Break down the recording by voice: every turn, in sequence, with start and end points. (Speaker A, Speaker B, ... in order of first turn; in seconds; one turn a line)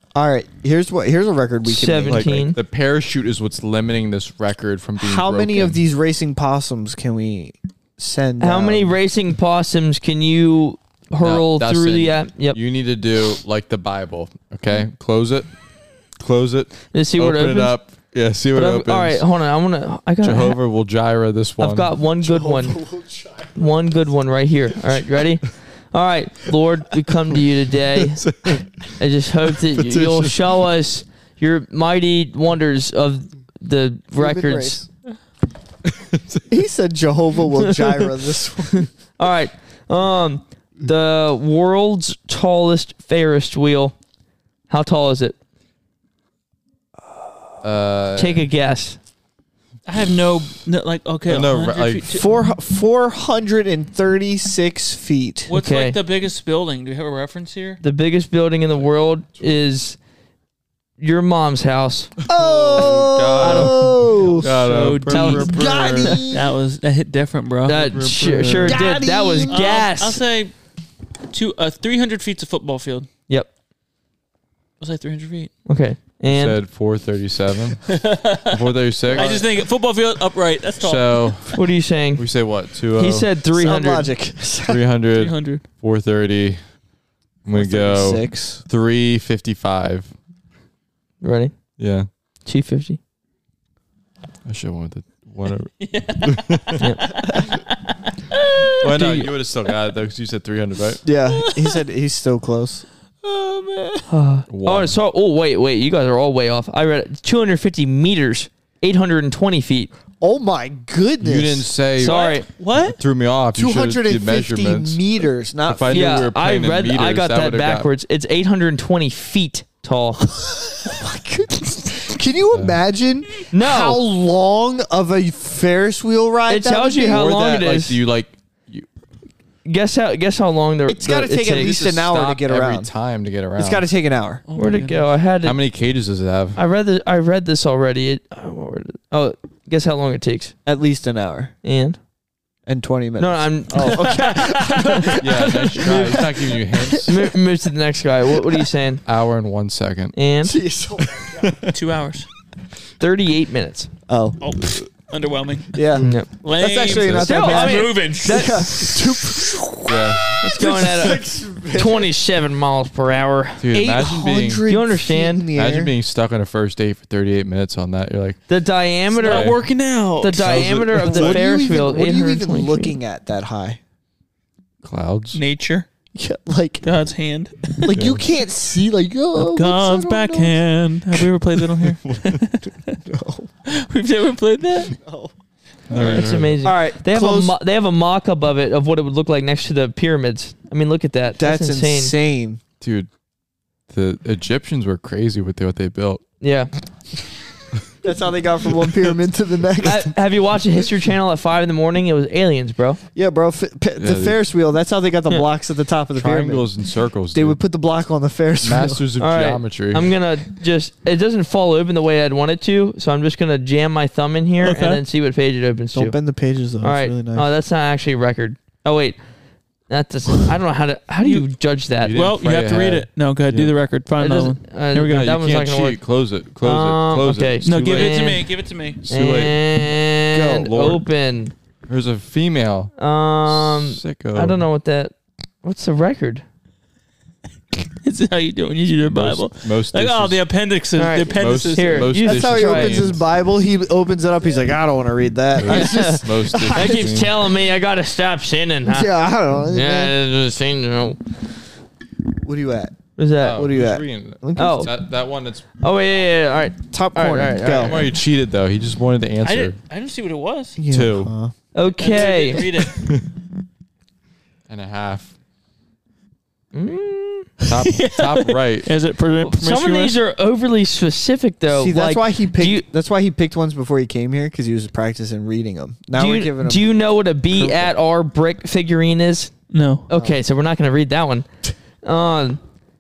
Speaker A: 0.1-2.5
Speaker B: 1.6-2.6
Speaker C: 2.1-5.8
Speaker A: 5.0-8.9
Speaker B: 8.4-12.6
Speaker C: 11.2-15.5
Speaker C: 16.2-19.2
Speaker B: 16.9-17.8
Speaker B: 18.5-20.6
Speaker C: 20.2-21.9
Speaker B: 21.6-22.8
Speaker A: 22.2-23.5
Speaker B: 23.6-28.2
Speaker C: 28.0-28.9
Speaker B: 29.0-34.8
Speaker C: 29.5-30.6
Speaker A: 34.1-34.9
Speaker C: 35.9-36.4
Speaker A: 36.5-38.9
Speaker B: 39.2-44.0
Speaker B: 44.7-45.4
Speaker C: 47.6-48.4
Speaker B: 48.2-49.0
Speaker D: 49.9-52.3
Speaker C: 51.3-52.1
Speaker A: 52.1-55.5
Speaker D: 55.5-57.8
Speaker B: 55.5-56.0
Speaker B: 57.8-60.0
Speaker B: 61.0-62.1
Speaker A: 62.3-64.5
Speaker D: 62.4-62.7
Speaker C: 62.7-66.0
Speaker B: 63.4-64.0
Speaker D: 64.4-68.0
Speaker B: 65.1-66.2
Speaker A: 65.3-66.4
Speaker B: 67.7-70.2
Speaker C: 68.2-68.7
Speaker A: 68.5-69.9
Speaker D: 69.5-70.5
Speaker D: 71.3-73.1
Speaker D: 74.8-75.5
Speaker B: 75.7-76.5
Speaker C: 76.3-79.5
Speaker D: 77.9-78.6
Speaker D: 79.1-81.4
Speaker C: 80.8-81.7
Speaker B: 81.5-82.2
Speaker C: 82.2-83.3
Speaker B: 83.0-84.1
Speaker A: 83.5-84.8
Speaker C: 84.7-86.6
Speaker D: 85.2-85.6
Speaker C: 87.5-90.1
Speaker A: 87.5-88.6
Speaker B: 91.2-91.5
Speaker C: 91.8-92.1
Speaker B: 92.5-93.0
Speaker C: 94.5-96.7
Speaker D: 95.8-99.3
Speaker B: 96.8-97.1
Speaker C: 98.8-101.0
Speaker A: 101.0-102.9
Speaker D: 101.3-101.8
Speaker D: 103.2-104.1
Speaker B: 104.1-109.9
Speaker C: 104.5-104.9
Speaker A: 110.2-111.7
Speaker C: 111.2-112.3
Speaker B: 112.0-112.5
Speaker D: 112.0-113.0
Speaker C: 112.9-115.0
Speaker A: 113.5-116.1
Speaker C: 115.7-117.9
Speaker B: 115.9-120.2
Speaker A: 120.4-127.3
Speaker B: 123.5-124.0
Speaker B: 126.5-128.0
Speaker C: 127.1-128.9
Speaker B: 129.7-132.4
Speaker A: 130.9-132.9
Speaker C: 131.6-133.8
Speaker A: 133.6-134.4
Speaker D: 134.5-135.1
Speaker B: 134.6-135.6
Speaker C: 135.4-136.6
Speaker B: 136.6-140.6
Speaker A: 140.7-141.6
Speaker B: 141.6-142.0
Speaker A: 142.7-147.1
Speaker B: 143.2-145.2
Speaker C: 145.2-147.1
Speaker B: 147.1-149.0
Speaker C: 149.1-150.2
Speaker B: 150.2-150.6
Speaker A: 150.4-151.5
Speaker C: 151.4-151.7
Speaker D: 151.7-152.3
Speaker B: 153.0-153.9
Speaker A: 154.1-154.4
Speaker D: 154.4-155.8
Speaker A: 155.7-162.1
Speaker D: 156.4-159.1
Speaker C: 156.8-157.3
Speaker B: 157.2-158.6
Speaker C: 159.8-160.4
Speaker B: 160.4-163.6
Speaker C: 163.6-164.7
Speaker A: 163.7-165.9
Speaker B: 164.7-165.5
Speaker C: 165.6-168.4
Speaker B: 168.5-169.6
Speaker D: 169.2-170.5
Speaker C: 169.2-169.6
Speaker B: 170.2-172.9
Speaker C: 170.4-171.4
Speaker A: 170.8-173.8
Speaker C: 174.8-175.4
Speaker D: 175.3-175.9
Speaker A: 176.1-176.8
Speaker D: 176.8-177.9
Speaker A: 177.8-180.6
Speaker C: 177.9-178.2
Speaker D: 179.4-182.9
Speaker C: 182.1-182.4
Speaker A: 182.9-183.5
Speaker D: 183.7-184.9
Speaker A: 184.9-185.3
Speaker C: 185.9-186.6
Speaker D: 185.9-186.2
Speaker B: 186.0-192.1
Speaker A: 186.6-187.6
Speaker A: 191.4-192.6
Speaker C: 192.8-193.1
Speaker C: 193.9-196.2
Speaker B: 196.4-196.7
Speaker A: 198.0-200.1
Speaker B: 199.8-203.0
Speaker A: 203.2-206.7
Speaker C: 204.0-204.4
Speaker C: 206.2-207.6
Speaker A: 207.3-209.1
Speaker C: 208.6-210.2
Speaker B: 209.2-216.2
Speaker D: 214.6-215.0
Speaker A: 215.9-217.5
Speaker B: 216.8-219.2
Speaker B: 219.9-222.2
Speaker C: 222.0-223.7
Speaker D: 222.1-225.3
Speaker B: 224.2-226.0
Speaker C: 225.0-228.4
Speaker B: 226.6-228.4
Speaker D: 227.6-229.0
Speaker C: 229.1-229.6
Speaker B: 229.1-231.5
Speaker A: 230.3-230.9
Speaker C: 230.5-231.0
Speaker C: 231.9-232.9
Speaker B: 233.0-236.4
Speaker C: 233.5-234.6
Speaker D: 238.0-242.1
Speaker C: 239.1-240.4
Speaker B: 241.0-243.0
Speaker C: 241.3-243.2
Speaker A: 242.2-247.2
Speaker C: 245.6-247.3
Speaker B: 245.7-249.1
Speaker A: 248.9-250.2
Speaker B: 249.7-251.2
Speaker A: 252.4-254.9
Speaker B: 253.2-253.7
Speaker C: 253.4-255.7
Speaker B: 254.6-254.9
Speaker B: 255.8-258.1
Speaker A: 256.9-258.1
Speaker C: 257.7-259.8
Speaker D: 259.4-260.8
Speaker A: 260.8-261.6
Speaker C: 260.9-261.3
Speaker B: 261.7-262.9
Speaker D: 262.0-263.0
Speaker C: 264.7-265.3
Speaker B: 266.7-267.5
Speaker C: 267.6-268.9
Speaker D: 267.9-270.2
Speaker B: 269.4-272.8
Speaker A: 271.7-276.9
Speaker B: 276.2-279.5
Speaker A: 277.5-277.9
Speaker D: 279.7-280.1
Speaker B: 280.1-281.5
Speaker A: 280.1-280.4
Speaker B: 282.0-282.6